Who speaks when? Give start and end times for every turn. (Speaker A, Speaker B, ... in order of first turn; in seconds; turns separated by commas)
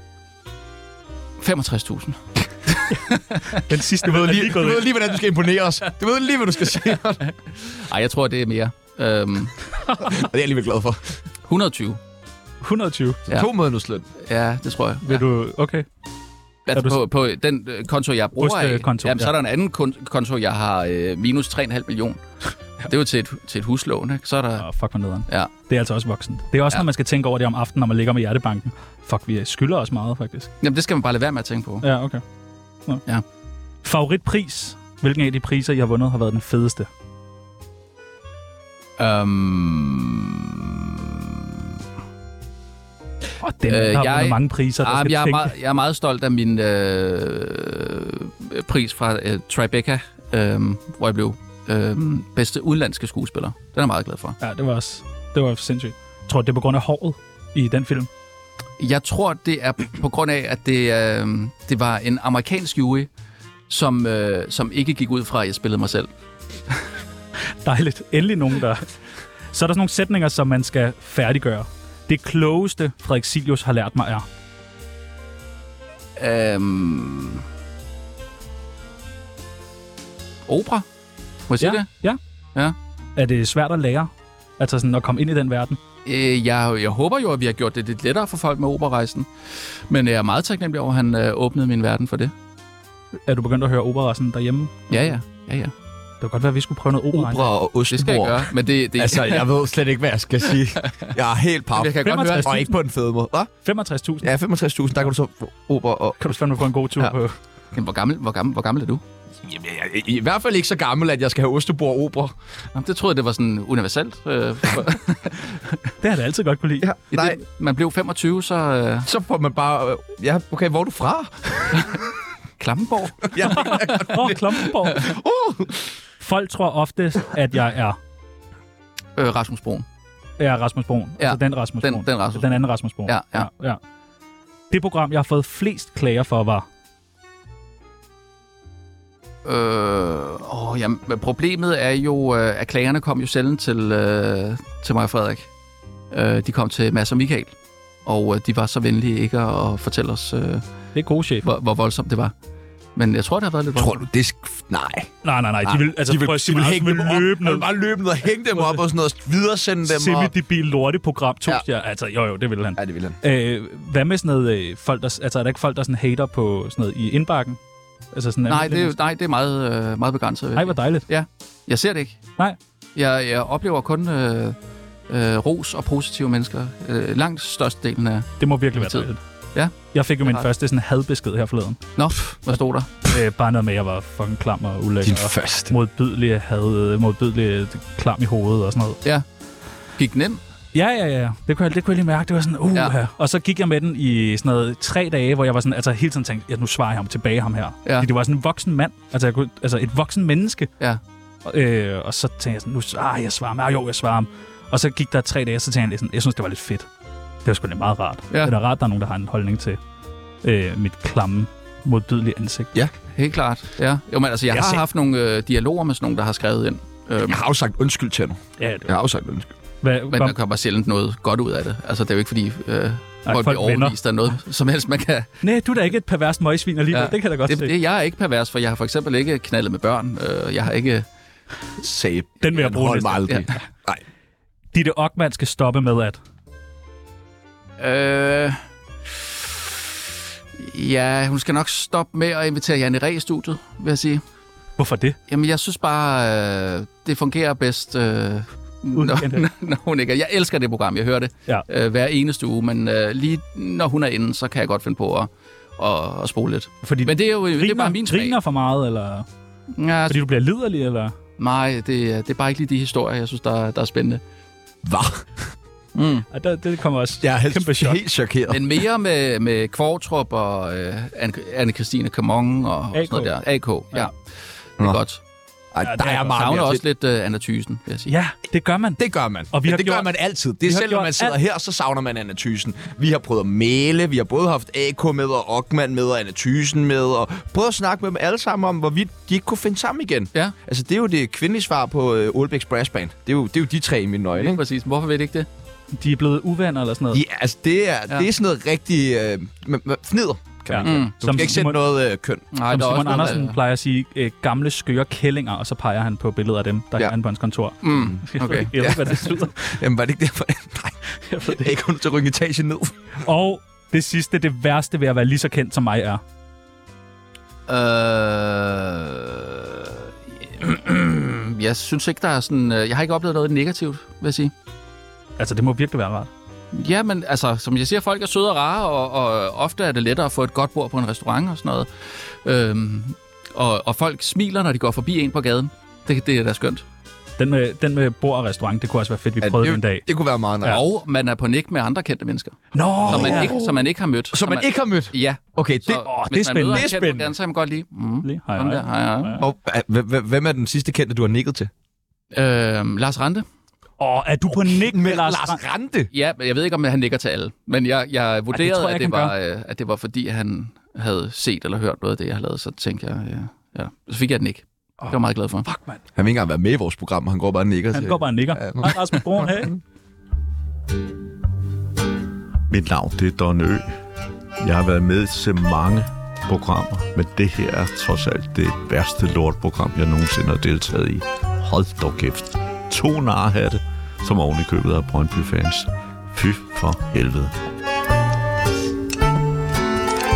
Speaker A: 1.4-3.6, Speaker B: 3.5-4.9, Speaker C: 4.0-7.2, Speaker A: 7.2-9.6, Speaker C: 10.0-11.2, Speaker A: 11.5-12.0, Speaker B: 12.6-13.2, Speaker C: 13.3-14.1, Speaker A: 14.2-15.2, Speaker B: 15.0-15.8, Speaker A: 16.7-22.2, Speaker B: 16.7-17.0, Speaker B: 18.4-19.3, Speaker A: 22.8-24.6, Speaker B: 24.6-30.5, Speaker A: 30.6-31.8, Speaker B: 31.8-32.2, Speaker B: 33.8-36.9, Speaker A: 39.0-41.5, Speaker B: 43.4-45.5, Speaker A: 43.7-54.4, Speaker B: 54.4-58.1, Speaker A: 58.8-63.1, Speaker A: 63.7-66.1, Speaker B: 67.6-68.9, Speaker B: 69.5-74.2, Speaker A: 76.2-77.4, Speaker A: 80.5-80.8, Speaker A: 81.5-81.9, Speaker B: 81.6-82.2, Speaker B: 83.2-85.8, Speaker A: 86.0-92.3, Speaker B: 93.2-94.9, Speaker A: 94.9-95.7, Speaker B: 96.2-97.5, Speaker C: 97.1-103.5, Speaker A: 97.9-99.5, Speaker A: 100.8-101.1, Speaker A: 101.8-102.5, Speaker B: 102.0-102.7, Speaker B: 103.6-104.3, Speaker C: 104.2-106.3, Speaker B: 106.2-107.3, Speaker A: 107.7-109.0, Speaker C: 109.4-112.3, Speaker A: 112.7-115.9, Speaker B: 116.0-116.9, Speaker C: 116.8-117.4, Speaker A: 117.1-119.1, Speaker C: 119.0-122.0, Speaker A: 122.6-124.1, Speaker C: 123.3-125.9, Speaker B: 123.5-125.1, Speaker B: 126.2-128.0, Speaker A: 129.2-129.8, Speaker B: 130.4-133.8, Speaker A: 131.2-133.5, Speaker B: 134.7-136.7, Speaker A: 139.4-145.5, Speaker A: 146.1-147.5, Speaker A: 148.0-150.6, Speaker B: 150.9-151.5, Speaker A: 151.4-152.3, Speaker A: 152.9-154.0, Speaker C: 153.7-160.3, Speaker B: 155.2-157.7, Speaker B: 159.9-167.6, Speaker C: 162.8-163.2, Speaker B: 168.1-168.9, Speaker A: 168.5-172.2, Speaker B: 170.5-171.1, Speaker A: 172.9-174.6, Speaker A: 175.1-180.5, Speaker B: 178.4-179.2, Speaker B: 179.9-181.8, Speaker A: 181.9-182.9, Speaker B: 183.0-189.0, Speaker C: 185.0-185.7, Speaker A: 190.0-190.4, Speaker B: 190.7-200.7, Speaker B: 201.4-206.9, Speaker B: 207.4-209.8, Speaker B: 210.4-212.7, Speaker A: 213.1-217.4, Speaker C: 214.5-214.8, Speaker C: 217.2-219.5, Speaker B: 218.6-218.9, Speaker B: 219.8-220.3, Speaker A: 220.1-225.3, Speaker B: 223.2-224.0, Speaker B: 225.4-227.7, Speaker A: 226.9-231.1, Speaker C: 231.8-234.0, Speaker B: 232.4-233.4, Speaker B: 234.7-236.2, Speaker A: 237.8-238.6, Speaker A: 239.1-239.9, Speaker A: 240.6-244.2, Speaker B: 244.8-245.2, Speaker A: 245.3-258.4, Speaker B: 248.9-249.4, Speaker B: 256.8-259.2, Speaker A: 259.7-260.2, Speaker B: 260.1-261.1, Speaker A: 261.4-264.2, Speaker C: 264.8-265.5, Speaker A: 265.9-266.3, Speaker B: 266.3-268.0, Speaker C: 267.2-268.7, Speaker A: 268.5-274.1, Speaker B: 272.9-273.3, Speaker A: 274.8-275.2, Speaker C: 275.7-276.8, Speaker B: 275.8-276.4, Speaker A: 276.3-278.1, Speaker B: 278.1-281.4, Speaker C: 279.0-294.6, Speaker A: 294.4-295.5, Speaker B: 295.9-297.2, Speaker C: 297.1-302.4, Speaker B: 300.7-301.8, Speaker A: 300.8-301.5, Speaker A: 302.5-303.5, Speaker B: 302.7-309.7, Speaker A: 307.8-308.7, Speaker C: 307.9-308.2, Speaker C: 308.7-313.1, Speaker B: 311.2-311.8, Speaker B: 313.2-316.2, Speaker A: 317.7-324.5, Speaker B: 325.4-326.3, Speaker A: 326.7-336.8, Speaker B: 337.4-340.1, Speaker C: 339.4-340.8, Speaker A: 340.6-349.4, Speaker B: 342.7-343.5, Speaker C: 343.0-346.1, Speaker B: 346.0-347.3, Speaker B: 348.2-349.4, Speaker C: 349.4-351.7, Speaker A: 352.3-353.4, Speaker B: 354.0-355.6, Speaker C: 354.5-356.1, Speaker A: 356.1-365.6, Speaker B: 358.5-359.3, Speaker B: 365.0-366.0, Speaker C: 366.1-369.8, Speaker B: 367.9-369.8, Speaker D: 372.7-373.9, Speaker D: 374.6-387.5